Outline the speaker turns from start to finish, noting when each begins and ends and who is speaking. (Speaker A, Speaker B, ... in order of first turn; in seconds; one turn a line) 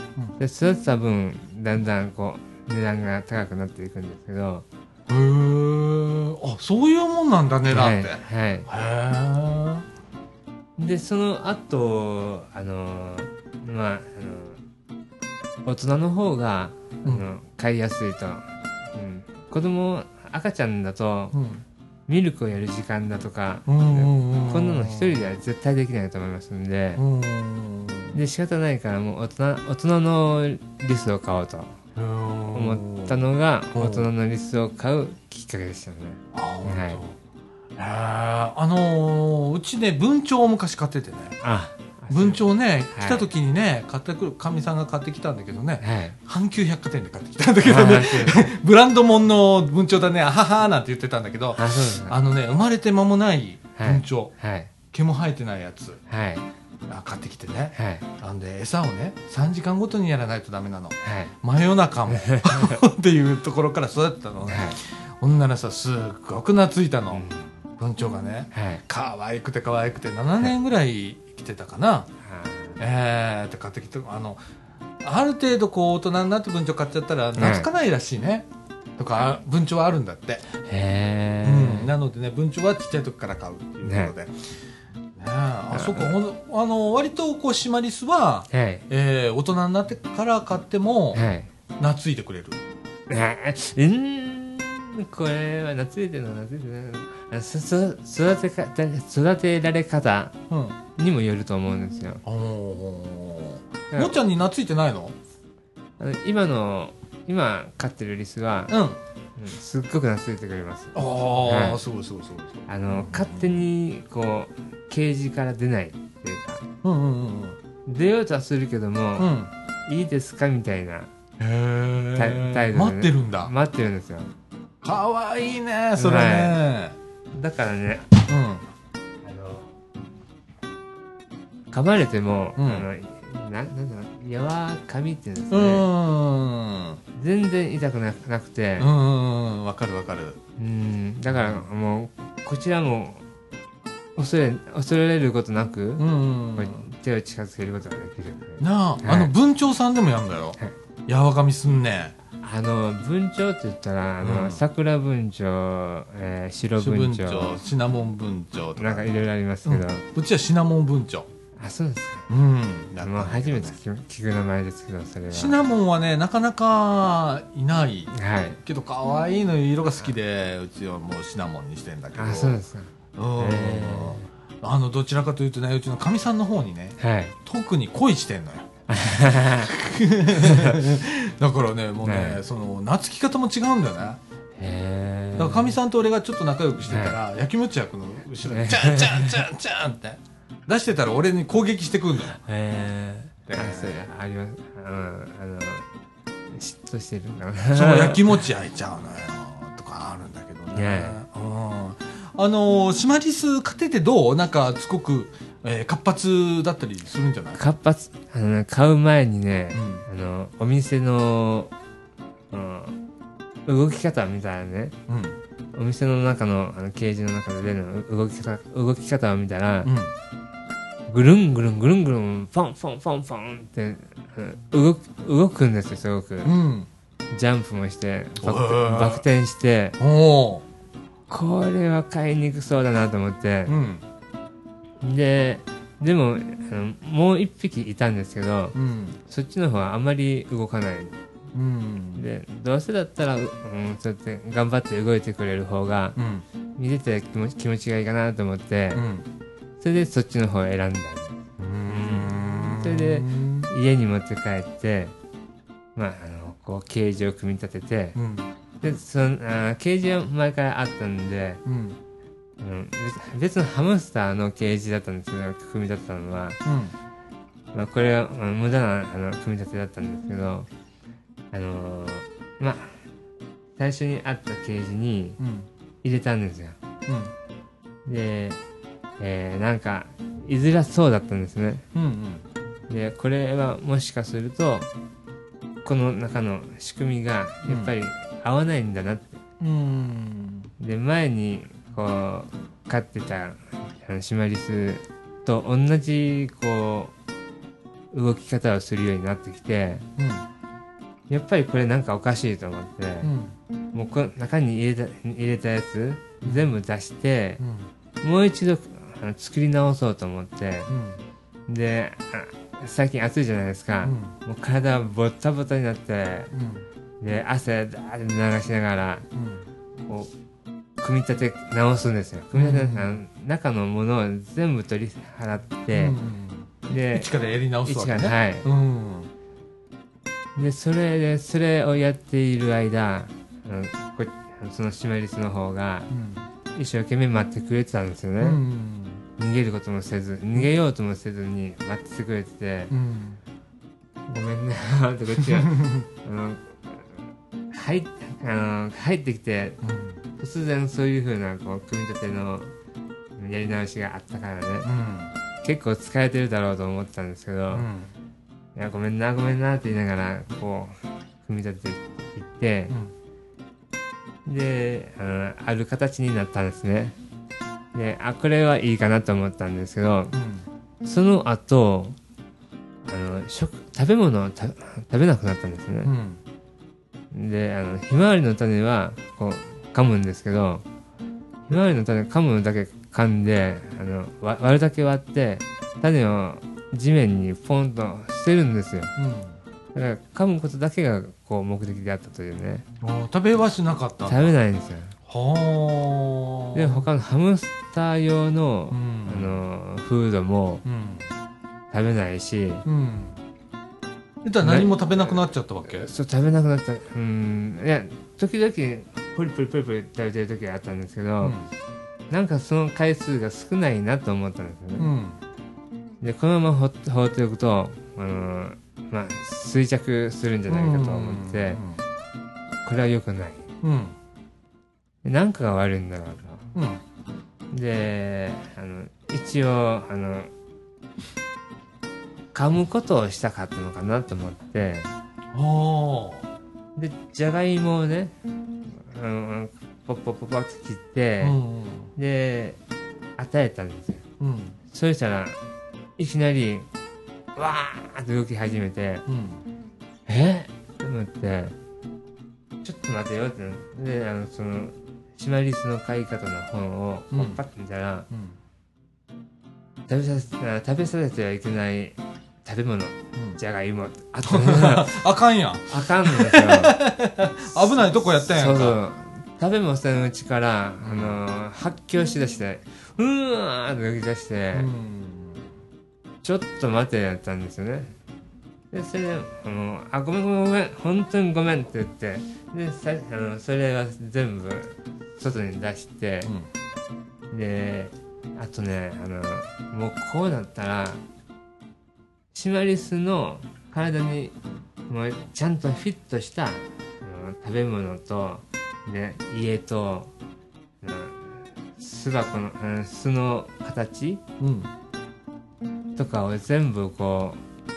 Speaker A: 0.4-4.6
Speaker B: 5.1-9.8
Speaker A: 7.7-8.7
Speaker A: 10.8-14.6
Speaker A: 15.6-21.3
Speaker B: 21.3-21.6
Speaker A: 22.1-27.0
Speaker B: 23.7-25.1
Speaker B: 27.0-28.2
Speaker A: 28.1-31.7
Speaker B: 31.9-33.2
Speaker A: 32.5-37.0
Speaker B: 33.7-34.1
Speaker B: 36.3-37.1
Speaker B: 37.8-41.4
Speaker A: 41.4-43.2
Speaker B: 42.1-56.0
Speaker A: 45.8-46.1
Speaker A: 47.6-48.5
Speaker A: 51.5-52.1
Speaker A: 53.8-54.7
Speaker A: 56.1-56.5
Speaker B: 56.9-67.2
Speaker A: 57.7-58.0
Speaker A: 61.0-61.3
Speaker A: 62.1-62.8
Speaker A: 64.5-64.8
Speaker A: 67.1-67.5
Speaker B: 67.8-72.1
Speaker A: 68.5-68.8
Speaker A: 72.2-72.8
Speaker B: 72.8-74.4
Speaker B: 75.0-78.5
Speaker A: 77.4-77.7
Speaker B: 79.0-80.5
Speaker A: 80.7-81.9
Speaker B: 81.4-84.3
Speaker A: 83.8-84.1
Speaker B: 85.2-91.2
Speaker A: 85.7-86.1
Speaker A: 88.5-88.8
Speaker A: 91.1-91.5
Speaker B: 91.8-92.6
Speaker A: 93.1-100.3
Speaker B: 100.5-100.8
Speaker A: 101.0-102.2
Speaker B: 102.2-105.1
Speaker A: 106.0-108.8
Speaker B: 108.7-109.0
Speaker A: 109.4-111.8
Speaker B: 110.9-113.5
Speaker A: 112.7-116.6
Speaker B: 116.8-117.6
Speaker A: 117.8-119.3
Speaker B: 119.2-119.5
Speaker A: 119.9-121.1
Speaker B: 121.4-123.5
Speaker A: 122.2-124.3
Speaker B: 124.8-126.9
Speaker A: 126.0-126.6
Speaker A: 127.3-128.1
Speaker B: 128.2-128.6
Speaker A: 129.2-129.7
Speaker A: 131.7-135.8
Speaker B: 132.6-132.9
Speaker B: 135.5-137.0
Speaker A: 137.2-138.9
Speaker B: 138.8-140.4
Speaker A: 140.6-143.2
Speaker B: 141.3-141.6
Speaker A: 144.2-149.3
Speaker B: 146.0-146.8
Speaker B: 148.6-152.1
Speaker A: 152.4-157.6
Speaker B: 154.2-154.6
Speaker B: 156.8-159.1
Speaker A: 158.8-160.0
Speaker B: 159.7-161.3
Speaker A: 161.6-162.3
Speaker B: 162.3-163.8
Speaker A: 163.0-165.6
Speaker B: 165.3-168.1
Speaker A: 168.1-168.6
Speaker B: 168.6-172.6
Speaker A: 172.1-174.2
Speaker B: 173.2-178.7
Speaker A: 177.0-177.3
Speaker A: 178.9-179.7
Speaker B: 179.6-184.2
Speaker A: 180.4-180.8
Speaker A: 182.0-182.4
Speaker A: 184.6-185.7
Speaker B: 185.4-192.4
Speaker A: 186.9-187.2
Speaker A: 188.4-189.4
Speaker A: 192.5-195.8
Speaker B: 193.5-194.0
Speaker A: 196.5-198.3
Speaker B: 197.7-207.6
Speaker A: 200.7-201.2
Speaker A: 207.6-211.7
Speaker B: 209.7-210.0
Speaker A: 212.5-212.9
Speaker A: 213.7-214.9
Speaker B: 215.1-215.3
Speaker A: 215.7-219.9
Speaker B: 219.8-220.1
Speaker A: 221.1-226.5
Speaker B: 226.4-226.9
Speaker A: 227.3-230.0
Speaker B: 228.4-229.2
Speaker B: 230.0-230.6
Speaker A: 231.3-233.7
Speaker B: 233.7-234.0
Speaker A: 235.0-238.7
Speaker B: 238.7-239.2
Speaker A: 239.2-241.1
Speaker B: 241.5-242.2
Speaker A: 242.2-246.2
Speaker B: 246.2-246.4
Speaker A: 246.8-249.0
Speaker B: 248.9-249.2
Speaker A: 249.8-255.1
Speaker B: 251.6-253.7
Speaker A: 255.9-258.2
Speaker B: 258.1-258.5
Speaker A: 258.8-261.6
Speaker B: 261.6-262.0
Speaker A: 262.6-266.6
Speaker B: 266.6-266.9
Speaker A: 267.7-270.7
Speaker A: 271.5-273.0
Speaker A: 273.8-275.4
Speaker B: 275.4-275.7
Speaker A: 276.0-276.8
Speaker B: 277.1-277.3
Speaker A: 278.1-278.6
Speaker A: 279.2-281.8
Speaker B: 281.9-282.4
Speaker A: 282.9-284.9
Speaker A: 285.8-289.4
Speaker B: 287.7-287.9
Speaker B: 289.6-290.7
Speaker A: 290.8-297.1
Speaker A: 298.1-300.0
Speaker B: 300.2-300.4
Speaker A: 301.3-303.3
Speaker B: 303.2-303.5
Speaker A: 303.9-307.6
Speaker B: 306.4-306.7
Speaker B: 307.6-307.9
Speaker A: 308.2-310.9
Speaker B: 310.9-311.2
Speaker A: 311.7-316.5
Speaker B: 314.0-314.3
Speaker B: 316.5-316.8
Speaker A: 317.2-319.2
Speaker B: 319.3-319.6
Speaker A: 321.0-326.1
Speaker B: 322.5-323.1
Speaker B: 325.9-329.3
Speaker A: 326.9-327.3
Speaker A: 327.8-328.6
Speaker A: 330.6-336.1
Speaker B: 336.1-336.4
Speaker A: 336.7-338.6
Speaker B: 338.4-339.2
Speaker A: 339.4-342.9
Speaker B: 342.9-343.4
Speaker A: 344.3-347.1
Speaker B: 345.4-346.1
Speaker A: 347.7-349.8
Speaker B: 349.8-350.2
Speaker A: 350.4-352.7
Speaker A: 353.4-354.9
Speaker B: 354.8-355.3
Speaker A: 355.6-357.9
Speaker B: 357.7-358.1
Speaker A: 358.8-362.9
Speaker A: 364.4-367.1
Speaker A: 367.9-370.3
Speaker B: 370.3-370.6
Speaker A: 371.0-372.1
Speaker A: 373.1-376.1
Speaker B: 376.0-376.4
Speaker A: 377.3-380.8
Speaker A: 381.7-389.1
Speaker B: 389.1-389.6
Speaker A: 389.9-392.8
Speaker B: 393.0-394.5
Speaker A: 394.3-395.1
Speaker B: 395.3-397.1
Speaker A: 396.7-400.8
Speaker B: 398.9-399.6
Speaker B: 400.8-401.3
Speaker A: 401.9-402.8
Speaker B: 402.8-403.4
Speaker B: 404.4-406.1
Speaker A: 404.6-405.4
Speaker A: 406.0-411.6
Speaker B: 411.4-411.7
Speaker A: 412.3-415.1
Speaker B: 415.0-415.4
Speaker A: 416.2-421.8
Speaker B: 420.7-422.0
Speaker A: 422.8-423.6
Speaker B: 423.8-424.1
Speaker A: 425.2-426.6
Speaker B: 426.7-427.0
Speaker A: 427.7-430.5
Speaker A: 432.5-435.1
Speaker B: 435.5-436.4
Speaker A: 436.9-438.3
Speaker A: 439.0-441.6
Speaker B: 441.4-442.1
Speaker A: 442.1-442.8
Speaker A: 443.4-444.2
Speaker B: 444.4-444.8
Speaker A: 444.9-445.6
Speaker A: 446.2-446.9
Speaker A: 447.6-449.2
Speaker B: 449.3-449.6
Speaker A: 450.2-451.7
Speaker A: 452.8-458.3
Speaker B: 457.3-457.6
Speaker B: 458.3-458.6
Speaker A: 460.1-465.1
Speaker B: 464.4-469.0
Speaker A: 465.9-466.9
Speaker A: 468.4-474.9
Speaker B: 471.0-471.4
Speaker B: 474.7-475.7
Speaker A: 476.4-478.1
Speaker A: 478.9-486.5
Speaker A: 487.5-491.2
Speaker A: 492.5-494.5
Speaker A: 495.1-500.3
Speaker A: 501.0-504.4
Speaker B: 504.6-504.9
Speaker A: 506.1-507.6